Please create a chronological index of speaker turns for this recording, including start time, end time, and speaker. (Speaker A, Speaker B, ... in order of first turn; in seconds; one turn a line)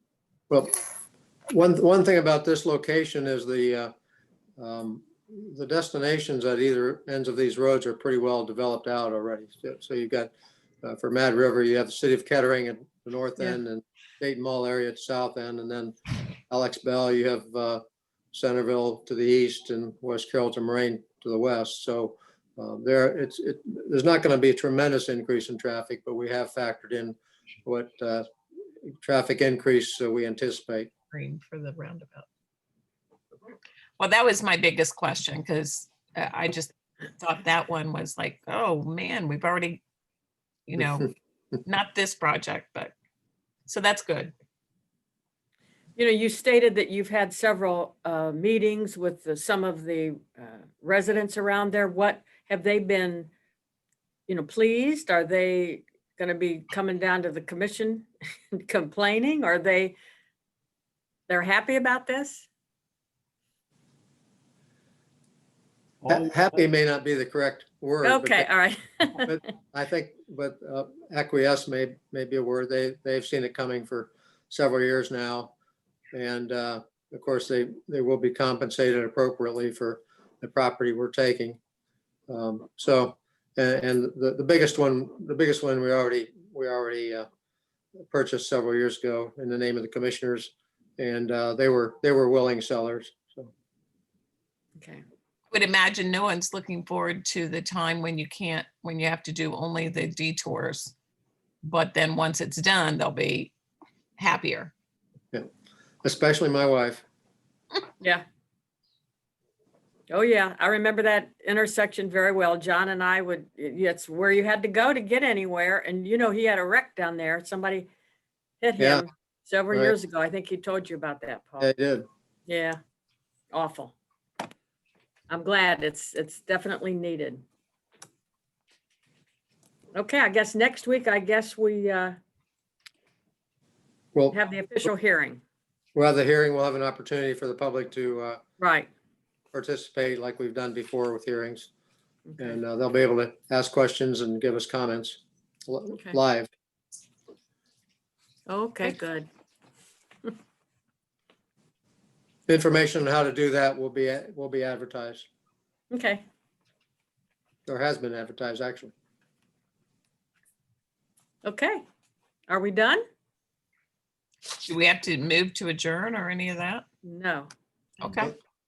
Speaker A: 1.5-3.9
Speaker A: 4.6-15.9
Speaker A: 16.5-17.8
Speaker A: 18.3-28.2
Speaker A: 29.0-30.9
Speaker B: 31.1-32.3
Speaker B: 34.0-39.8
Speaker B: 40.7-42.9
Speaker B: 43.7-44.3
Speaker C: 46.0-53.3
Speaker C: 54.3-60.0
Speaker C: 61.3-62.5
Speaker A: 66.0-68.5
Speaker C: 68.0-69.3
Speaker A: 69.2-75.5
Speaker A: 76.1-81.6
Speaker A: 82.3-87.3
Speaker A: 88.1-93.5
Speaker C: 94.8-95.0
Speaker B: 95.5-100.9
Speaker B: 101.6-103.5
Speaker B: 104.2-104.7
Speaker A: 106.0-107.0
Speaker C: 110.1-117.9
Speaker C: 118.6-121.7
Speaker A: 118.8-119.0
Speaker A: 121.6-122.0
Speaker C: 122.5-122.8
Speaker C: 123.5-123.9
Speaker C: 125.3-127.4
Speaker C: 129.9-132.2
Speaker C: 134.3-135.4
Speaker A: 135.9-138.4
Speaker C: 138.6-138.9
Speaker A: 139.5-141.7
Speaker C: 142.3-142.6
Speaker A: 142.4-146.5
Speaker C: 148.5-149.3
Speaker A: 152.5-155.3
Speaker C: 155.9-156.2
Speaker A: 157.7-158.9
Speaker C: 161.4-161.8
Speaker C: 162.5-163.0
Speaker B: 164.6-166.8
Speaker C: 167.0-167.5
Speaker B: 168.0-168.3